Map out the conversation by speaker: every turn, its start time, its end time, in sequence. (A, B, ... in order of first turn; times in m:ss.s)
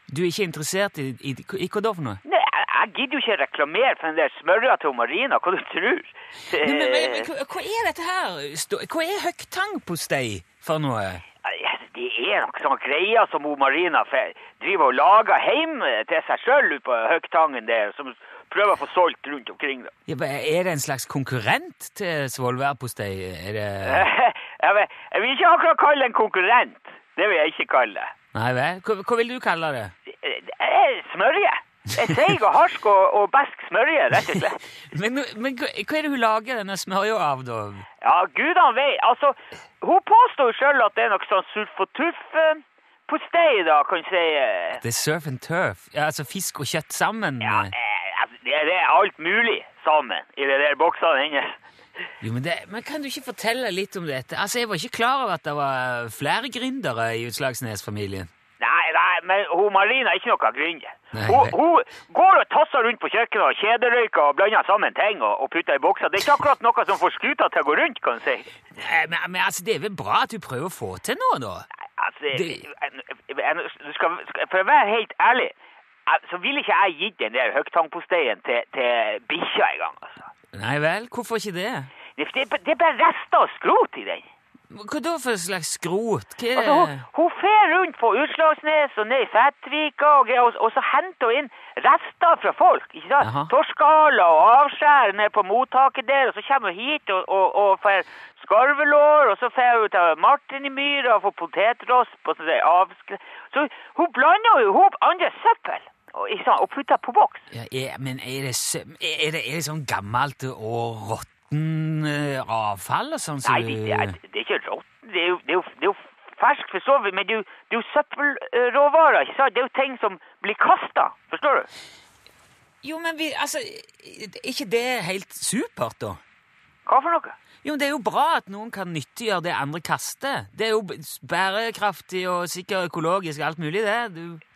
0:00.1-0:02.2 A
0:02.2-0:07.3 B
0:06.6-0:11.2 A
0:11.4-0:19.9 B
0:20.1-0:24.1 A
0:23.9-0:28.1 B
0:28.3-0:29.9 A
0:30.2-0:34.6 B
0:34.9-0:37.9 A
0:38.0-0:44.8 B
0:44.8-0:47.7 A
0:47.4-0:51.6 B
0:52.2-0:58.3 A
0:58.6-1:08.5 B
1:01.1-1:01.6 A
1:08.8-1:11.7 A
1:12.0-1:15.5 B
1:12.3-1:12.6 A
1:16.1-1:20.2 B
1:20.5-1:21.9 A
1:22.2-1:24.3 B
1:24.7-1:27.0 A
1:26.6-1:47.4 B
1:33.2-1:33.5 A
1:47.5-1:54.2 A
1:53.4-2:01.7 B
2:02.8-2:06.2 A
2:06.9-2:07.4 B
2:07.6-2:14.4 A